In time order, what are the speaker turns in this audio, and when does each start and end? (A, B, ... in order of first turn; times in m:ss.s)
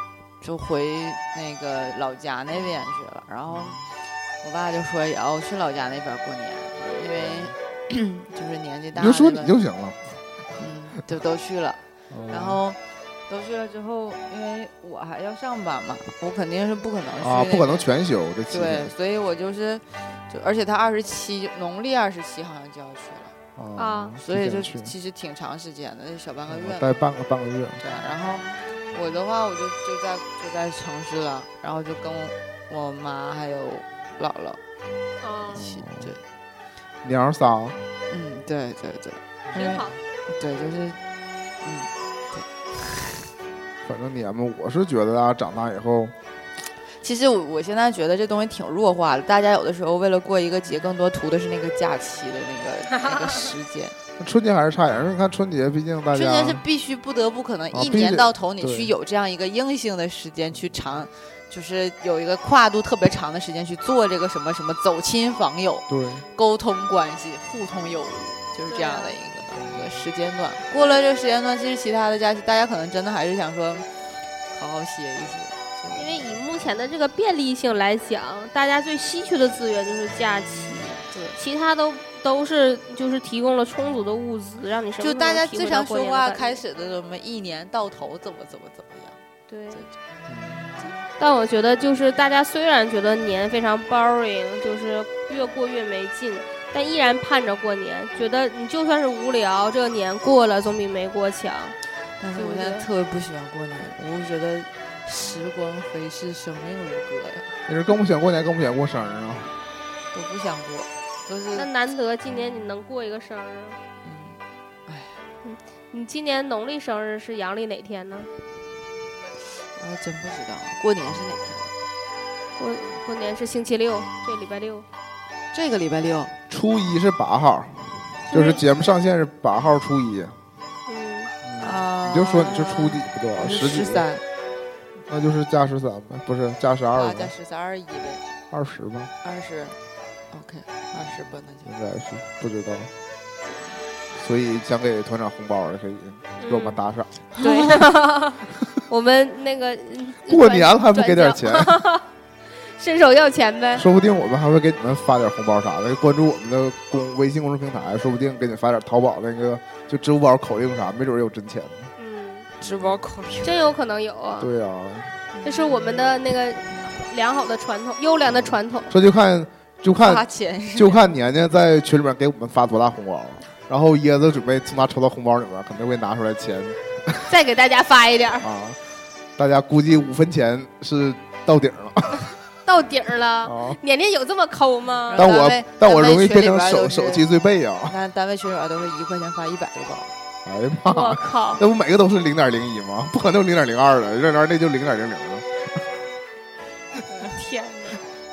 0:00.4-0:03.8 A
0:03.5-0:03.8 B
0:04.4-0:09.6 A
0:07.2-0:07.6 B
0:09.0-0:10.0 B
0:10.6-0:17.9 A
0:12.1-0:12.6 B
0:17.2-0:18.9 B
0:18.5-0:23.3 A
0:23.6-0:24.9 B
0:23.8-0:24.2 C
0:24.2-0:26.9 A
0:26.5-0:27.8 B
0:27.8-0:34.6 A
0:35.2-0:35.6 C
0:35.5-0:36.2 A
0:35.6-0:36.1 B
0:37.0-0:37.8 B
0:38.1-0:41.0 A
0:39.5-0:40.0 C
0:41.6-0:43.3 A
0:43.8-0:46.2 B
0:47.0-0:54.0 A
0:53.0-0:53.4 C
0:54.2-0:56.6 B
0:56.1-1:13.9 A
0:57.7-0:59.0 B
1:05.9-1:06.3 B
1:08.7-1:09.2 C
1:09.6-1:09.9 B
1:14.5-1:16.4 A
1:16.0-1:26.6 C
1:20.7-1:21.4 A
1:25.0-1:29.2 A
1:29.5-1:29.8 C
1:30.3-1:30.7 B
1:31.2-1:41.8 C
1:42.2-1:47.6 A
1:42.3-1:42.9 C
1:47.7-1:49.6 B
1:50.1-1:51.7 A
1:51.6-1:53.8 C
1:54.0-1:55.2 A
1:55.4-1:58.3 C
1:59.8-2:01.7 A
2:02.6-2:04.9 C
2:05.5-2:06.3 A
2:06.5-2:10.4 B
2:08.3-2:08.6 C
2:10.9-2:11.3 C
2:11.4-2:14.1 B
2:11.6-2:14.2 A
2:15.1-2:17.3 B
2:17.0-2:18.2 A
2:18.5-2:19.1 B
2:19.2-2:19.8 A
2:20.3-2:21.7 A
2:21.6-2:22.9 B
2:23.5-2:23.8 A
2:24.2-2:27.1 B
2:26.4-2:26.8 C
2:27.4-2:27.9 A
2:27.4-2:32.0 C
2:30.3-2:31.8 B
2:32.6-2:33.8 C
2:33.8-2:41.9 B
2:42.0-2:42.5 C
2:42.6-2:43.6 A
2:42.6-2:43.0 B
2:43.4-2:44.5 C
2:44.4-2:45.2 B
2:45.4-2:48.9 C
2:48.3-2:57.3 B
2:50.0-2:51.0 A
2:57.3-2:58.5 C
2:58.4-2:58.8 B
2:59.4-3:02.3 B
3:02.6-3:05.3 C
3:03.4-3:03.8 B
3:05.1-3:07.3 A
3:05.2-3:08.0 B
3:07.9-3:10.1 A
3:10.4-3:15.8 B
3:10.9-3:11.6 C
3:17.1-3:18.0 C